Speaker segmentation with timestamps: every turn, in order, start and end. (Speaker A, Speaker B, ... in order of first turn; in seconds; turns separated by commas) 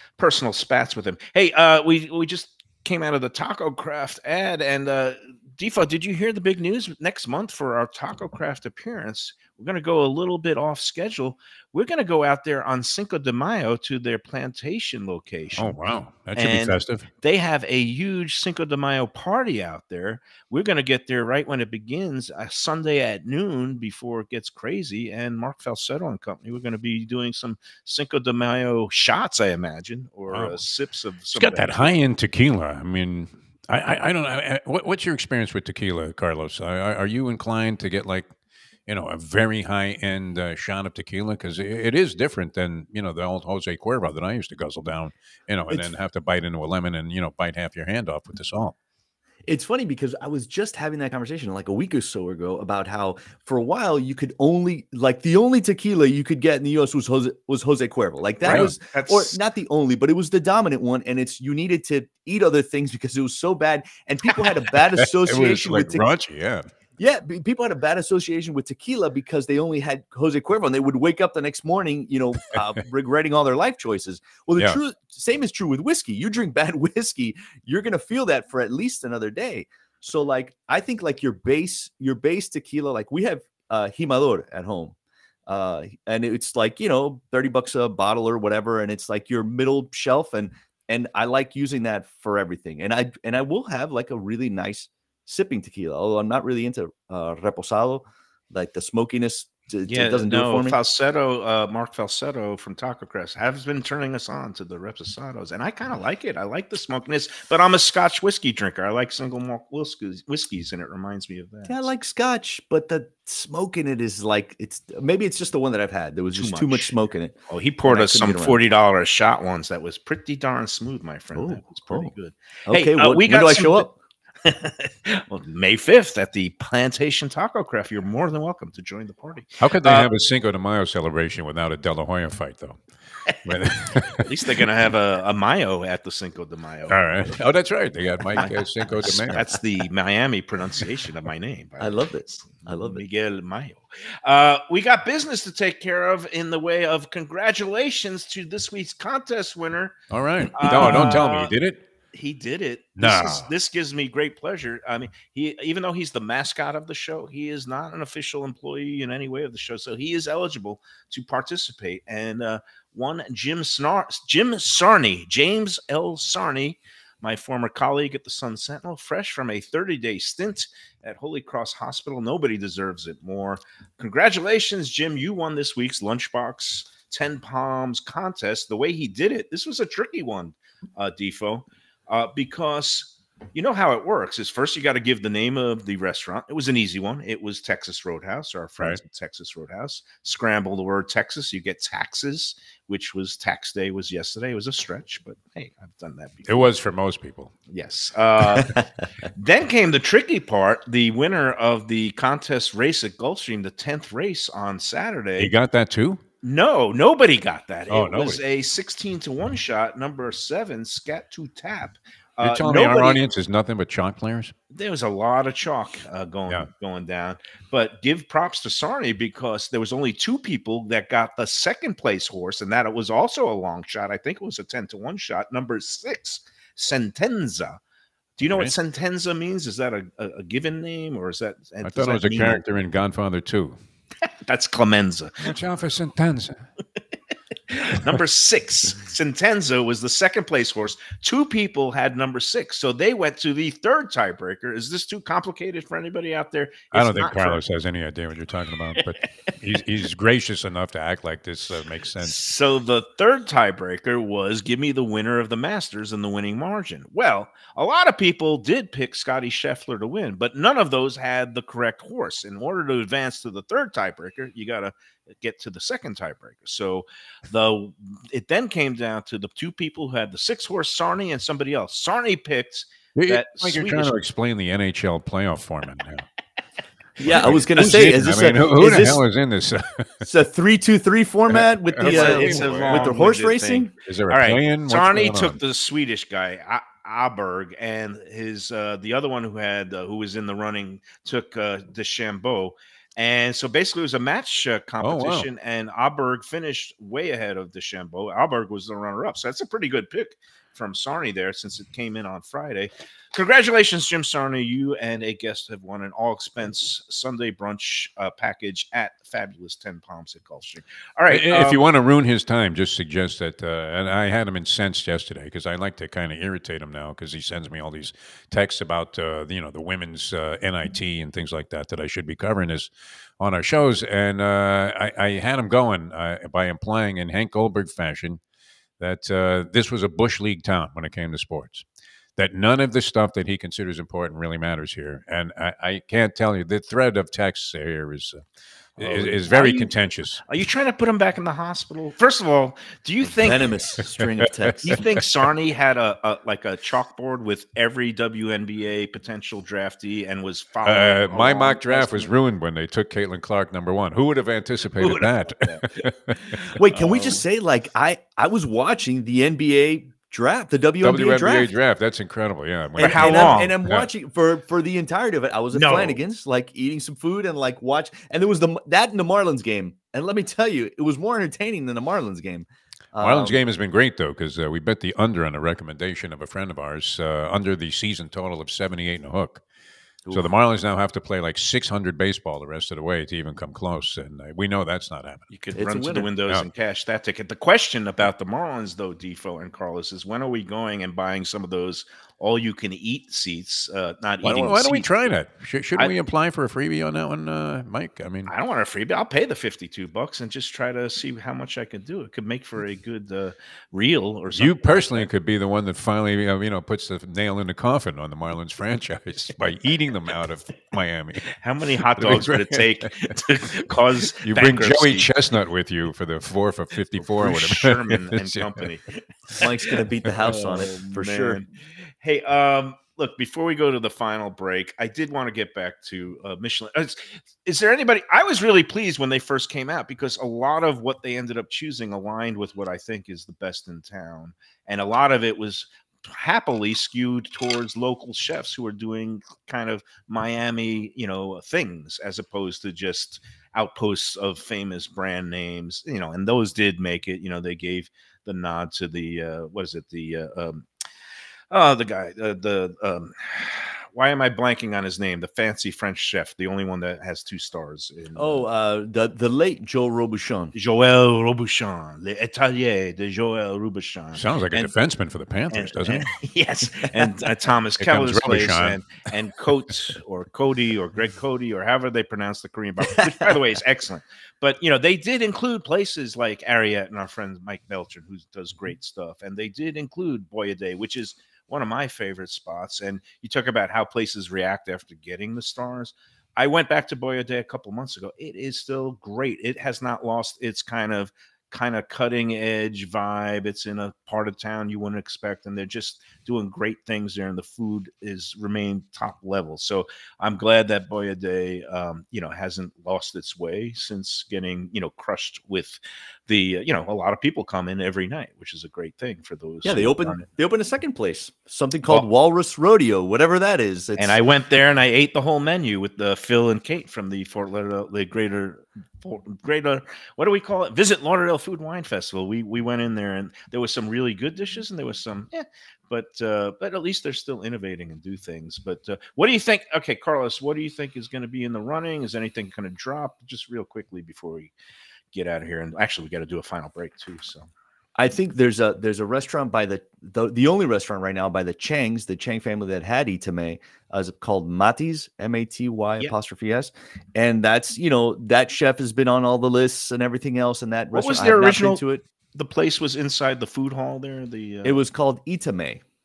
Speaker A: 0.2-15.8, Speaker B: 15.6-17.1, Speaker A: 16.4-31.9, Speaker B: 30.3-30.6, Speaker B: 31.3-38.3, Speaker B: 38.9-48.7, Speaker C: 49.5-66.0, Speaker B: 58.4-58.7, Speaker A: 58.4-59.4, Speaker B: 65.0-66.7, Speaker C: 67.0-84.9, Speaker C: 85.5-100.8, Speaker A: 99.9-111.9, Speaker C: 111.7-118.6, Speaker A: 116.3-116.9, Speaker A: 117.5-123.9, Speaker C: 121.3-122.1, Speaker C: 122.7-123.9, Speaker A: 124.4-130.1, Speaker B: 129.6-132.8, Speaker B: 133.3-134.3, Speaker A: 134.1-137.4, Speaker B: 136.9-139.4, Speaker A: 138.3-150.0, Speaker C: 141.8-143.0, Speaker B: 150.1-151.8, Speaker A: 150.5-151.5, Speaker A: 152.1-196.7, Speaker B: 153.0-153.5, Speaker B: 196.5-197.5, Speaker A: 197.7-205.5, Speaker B: 205.4-206.2, Speaker A: 206.4-213.2, Speaker B: 207.9-208.4, Speaker B: 212.4-214.5, Speaker A: 214.7-227.8, Speaker A: 228.4-232.6, Speaker B: 228.4-228.7, Speaker B: 231.8-233.8, Speaker A: 234.2-235.5, Speaker B: 235.4-236.6, Speaker A: 237.7-247.6, Speaker B: 246.9-252.4, Speaker A: 252.2-274.2, Speaker B: 273.1-276.2, Speaker B: 277.2-280.2, Speaker C: 277.2-279.2, Speaker A: 277.3-277.6, Speaker C: 280.2-283.9, Speaker B: 281.5-283.0, Speaker A: 282.0-311.8, Speaker B: 284.0-285.6, Speaker B: 295.0-295.5, Speaker B: 311.3-328.4, Speaker B: 329.0-338.4, Speaker B: 339.0-340.4, Speaker A: 339.0-339.9, Speaker A: 340.5-343.8, Speaker C: 343.4-345.0, Speaker B: 344.6-345.0, Speaker A: 344.8-352.4, Speaker B: 350.8-356.6, Speaker A: 355.0-357.4, Speaker C: 356.7-361.7, Speaker B: 361.0-364.1, Speaker A: 363.0-363.7, Speaker C: 363.0-373.6, Speaker A: 365.7-366.2, Speaker B: 373.2-379.6, Speaker C: 380.2-380.5, Speaker B: 380.3-385.4, Speaker A: 385.5-395.3, Speaker C: 385.7-386.3, Speaker B: 394.4-398.5, Speaker A: 398.5-405.3, Speaker B: 404.5-411.5, Speaker A: 411.6-415.3, Speaker B: 412.1-413.3, Speaker B: 414.3-418.8, Speaker A: 417.3-421.7, Speaker C: 419.6-421.6, Speaker A: 422.2-450.9, Speaker A: 451.7-458.6, Speaker C: 458.4-460.7, Speaker A: 460.7-464.9, Speaker B: 464.3-466.3, Speaker A: 465.7-510.4, Speaker B: 468.0-469.0, Speaker C: 473.1-473.6, Speaker C: 509.8-514.4, Speaker A: 514.2-534.7, Speaker A: 535.3-537.7, Speaker C: 538.1-552.2, Speaker A: 551.1-552.0, Speaker A: 552.5-555.0, Speaker C: 554.8-556.0